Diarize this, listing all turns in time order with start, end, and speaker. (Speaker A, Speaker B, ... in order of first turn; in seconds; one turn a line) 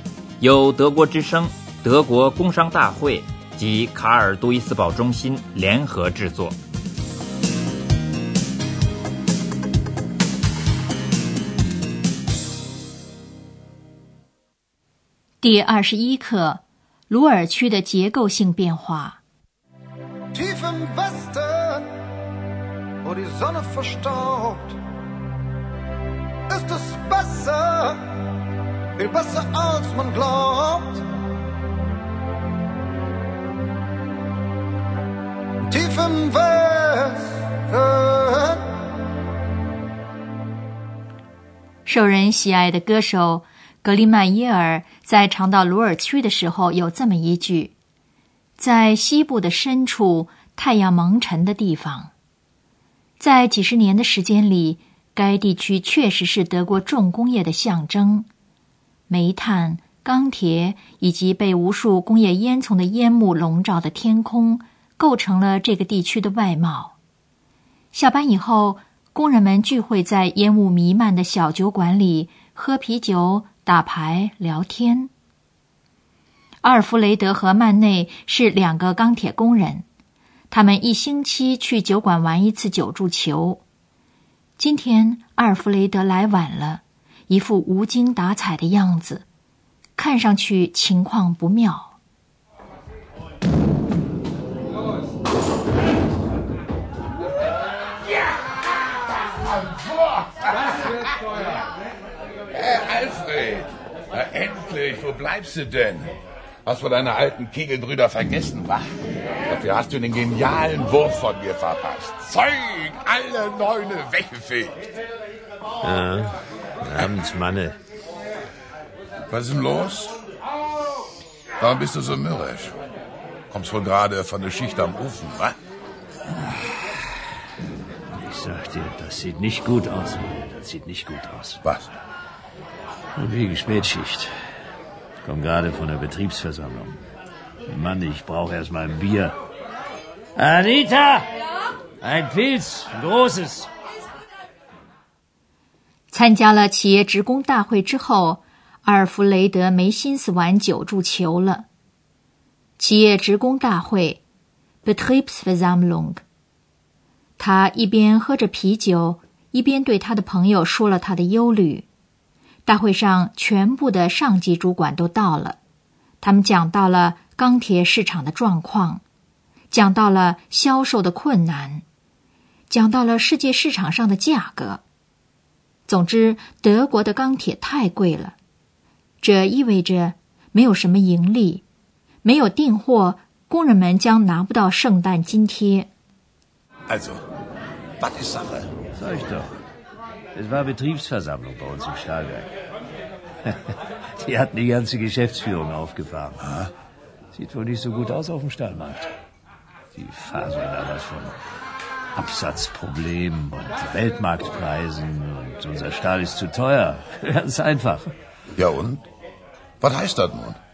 Speaker A: 0.4-6.6
Speaker B: 15.4-19.2
Speaker C: 20.3-21.9
Speaker C: 23.0-24.8
Speaker C: 26.5-28.0
Speaker C: 29.0-31.0
Speaker C: 35.7-38.6
Speaker B: 41.9-47.7
Speaker B: 48.6-52.1
Speaker B: 53.2-58.3
Speaker B: 59.1-66.9
Speaker B: 67.9-75.1
Speaker B: 76.6-79.8
Speaker B: 80.5-83.6
Speaker B: 84.6-89.2
Speaker B: 90.0-91.9
Speaker D: 99.8-101.1
Speaker D: 102.5-106.1
Speaker D: 106.6-108.9
Speaker D: 109.5-114.9
Speaker E: 115.8-117.8
Speaker D: 119.3-120.1
Speaker D: 121.6-122.7
Speaker D: 123.5-125.5
Speaker E: 126.3-127.0
Speaker E: 128.1-131.6
Speaker D: 131.6-131.9
Speaker E: 133.2-134.3
Speaker E: 135.2-137.0
Speaker E: 137.7-139.3
Speaker E: 140.3-141.3
Speaker E: 142.0-143.7
Speaker B: 146.1-151.7
Speaker B: 152.8-154.2
Speaker B: 154.8-156.2
Speaker B: 157.4-161.8
Speaker B: 162.7-165.6
Speaker B: 166.2-169.0
Speaker B: 169.7-171.8
Speaker B: 172.7-174.8
Speaker B: 175.9-178.3
Speaker B: 179.2-181.6
Speaker B: 182.2-185.9
Speaker D: 186.9-187.2
Speaker D: 188.0-188.7
Speaker E: 188.9-189.6
Speaker E: 190.3-192.5
Speaker E: 193.4-196.4
Speaker D: 196.4-196.7
Speaker E: 197.3-199.1
Speaker E: 199.9-201.3
Speaker E: 202.1-208.1
Speaker D: 208.6-209.0
Speaker D: 209.8-210.6